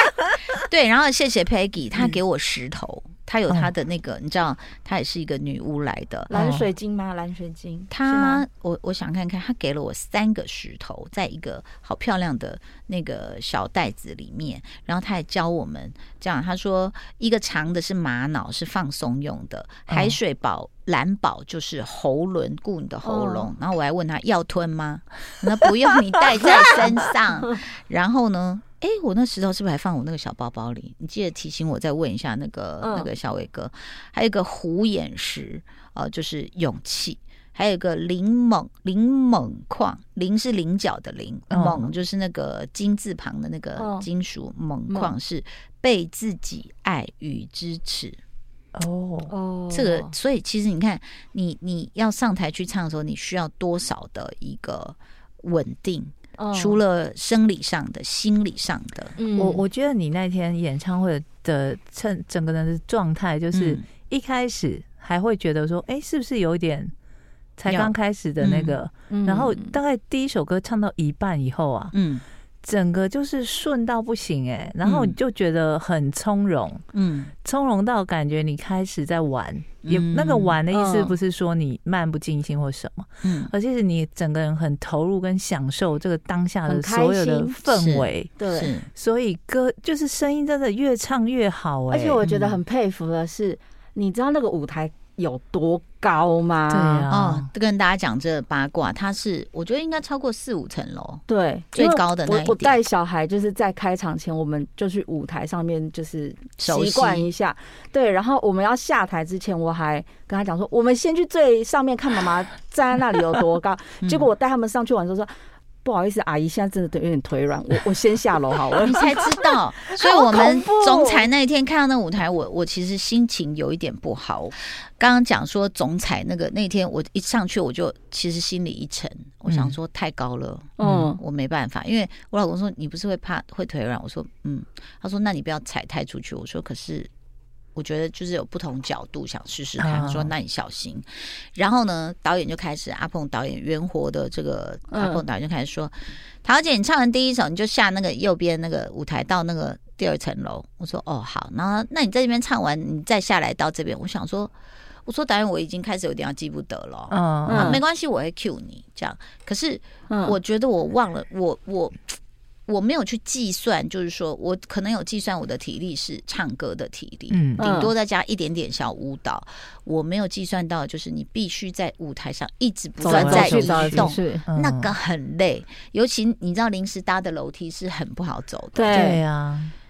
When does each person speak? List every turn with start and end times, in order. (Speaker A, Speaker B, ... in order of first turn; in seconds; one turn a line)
Speaker A: 0.5-6.3
Speaker B: 6.3-8.4
Speaker C: 6.3-6.7
Speaker A: 7.9-48.2
Speaker C: 19.9-20.2
Speaker B: 23.0-23.5
Speaker B: 32.8-33.1
Speaker C: 41.5-41.9
Speaker B: 43.8-44.0
Speaker B: 44.9-45.1
Speaker C: 48.7-49.3
Speaker B: 49.3-50.1
Speaker A: 49.7-59.2
Speaker B: 56.4-56.8
Speaker B: 59.2-59.6
Speaker C: 59.3-66.9
Speaker A: 63.5-63.8
Speaker C: 67.6-71.9
Speaker A: 67.7-68.8
Speaker B: 69.1-69.8
Speaker A: 71.9-72.2
Speaker C: 72.6-76.8
Speaker A: 74.8-75.2
Speaker A: 76.9-77.3
Speaker C: 77.4-88.3
Speaker A: 79.8-80.6
Speaker B: 80.7-81.2
Speaker A: 83.2-83.5
Speaker B: 86.7-87.6
Speaker A: 87.7-88.9
Speaker B: 88.4-88.7
Speaker C: 88.9-92.6
Speaker B: 91.9-97.1
Speaker C: 96.7-97.5
Speaker A: 97.1-102.8
Speaker B: 101.3-115.3
Speaker A: 106.6-107.3
Speaker A: 114.0-114.3
Speaker B: 115.8-119.3
Speaker A: 118.7-137.1
Speaker B: 120.0-121.2
Speaker C: 129.5-129.7
Speaker B: 130.8-131.2
Speaker C: 130.8-131.1
Speaker A: 137.7-154.5
Speaker C: 139.8-140.3
Speaker B: 144.9-145.2
Speaker A: 155.0-162.0
Speaker C: 157.1-157.8
Speaker B: 157.5-157.8
Speaker B: 160.1-160.4
Speaker A: 162.7-179.1
Speaker C: 167.3-167.6
Speaker B: 167.6-167.9
Speaker B: 173.0-174.5
Speaker C: 173.0-174.9
Speaker B: 178.7-179.2
Speaker C: 178.9-179.7